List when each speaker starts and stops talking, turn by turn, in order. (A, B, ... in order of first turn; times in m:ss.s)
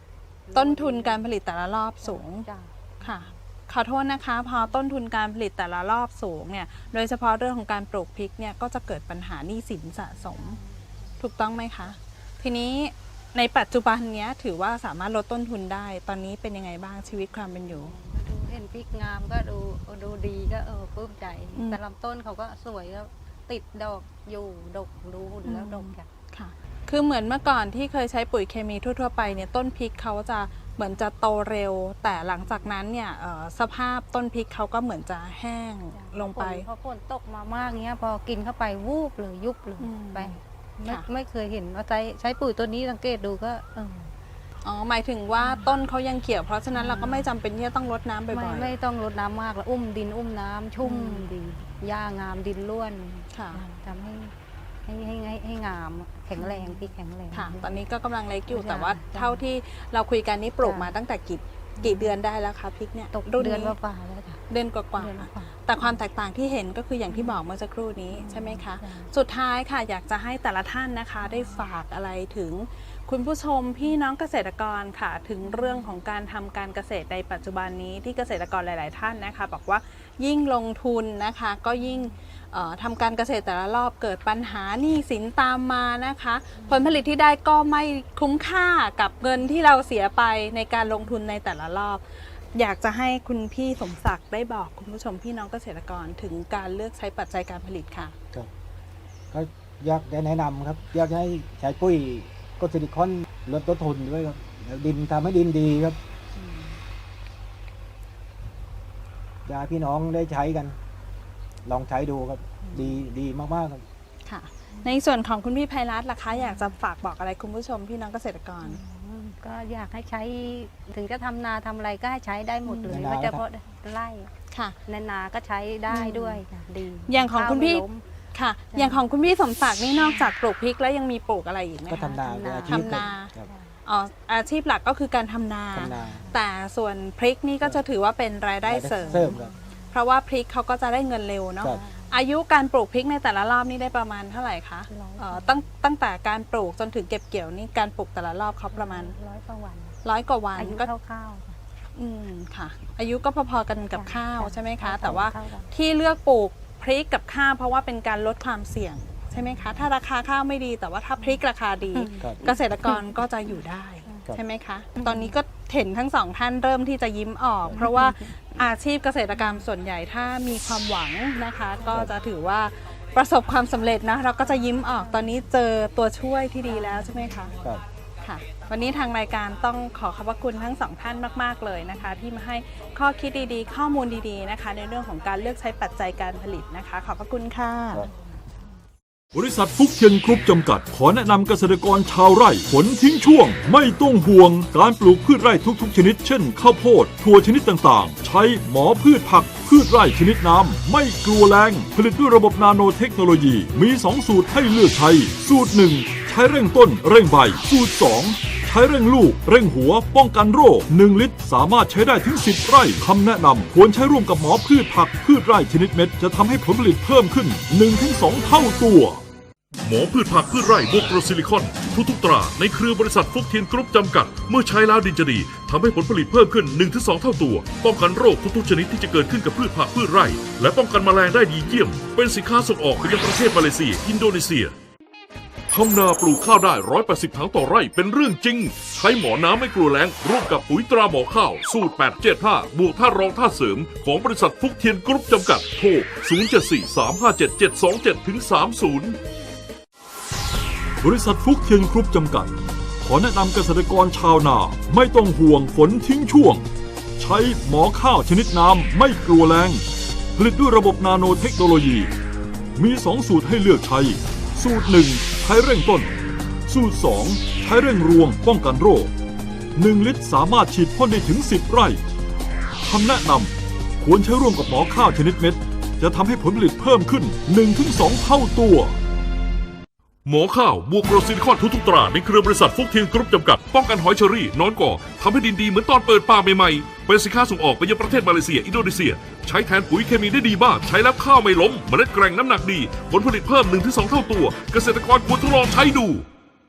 0:00.4-0:01.2 A
0:00.5-0:02.4 B
0:02.0-0:03.3 A
0:03.0-0:10.6 B
0:10.3-0:10.7 A
0:11.2-0:17.9 B
0:17.6-0:26.1 A
0:25.4-0:36.6 B
0:35.9-0:44.1 A
0:39.8-0:41.1 B
0:44.6-0:48.7 B
0:45.4-0:45.6 A
0:46.7-0:47.3 A
0:48.3-0:54.3 A
0:50.8-0:51.3 B
0:53.3-0:53.6 B
0:54.8-0:57.8 A
0:56.4-1:03.8 B
0:58.5-0:59.4 A
1:00.6-1:00.9 A
1:01.8-1:02.1 A
1:03.1-1:04.4 A
1:04.5-1:38.1 B
1:04.9-1:06.0 A
1:07.1-1:07.4 A
1:08.1-1:09.1 A
1:11.2-1:11.6 A
1:15.4-1:15.9 A
1:26.7-1:27.0 A
1:39.3-1:46.0 C
1:46.4-1:46.7 B
1:49.4-1:50.8 C
1:51.6-1:53.8 C
1:52.6-1:52.9 B
1:54.2-1:58.8 B
1:56.4-1:56.7 A
1:58.6-2:04.3 A
2:02.6-2:03.1 B
2:02.9-2:03.4 C
2:04.5-2:04.8 B
2:04.8-2:08.0 A
2:05.9-2:06.4 B
2:07.0-2:12.1 B
2:08.7-2:09.0 A
2:11.9-2:13.5 C
2:11.9-2:13.7 A
2:12.7-2:13.3 B
2:13.8-2:19.4 B
2:15.7-2:16.3 C
2:15.8-2:16.3 A
2:18.6-2:19.5 C
2:19.1-2:19.8 A
2:19.9-2:29.1 B
2:21.6-2:22.2 A
2:24.9-2:25.6 A
2:28.7-2:30.0 A
2:30.0-2:30.9 B
2:30.6-2:31.6 A
2:32.0-2:57.5 B
2:33.9-2:35.7 A
2:41.9-2:43.0 A
2:44.1-2:44.3 A
2:45.0-2:45.3 A
2:47.7-2:48.4 A
2:58.2-3:08.1 B
3:09.3-3:39.2 D
3:39.8-3:54.7 E
3:55.7-4:09.2 E
4:11.0-4:16.6 D
4:17.2-4:19.8 D
4:20.4-4:22.1 D
4:22.8-4:26.1 D
4:26.7-4:29.1 D
4:29.8-4:32.0 D
4:32.8-4:39.0 D
4:40.2-4:56.2 E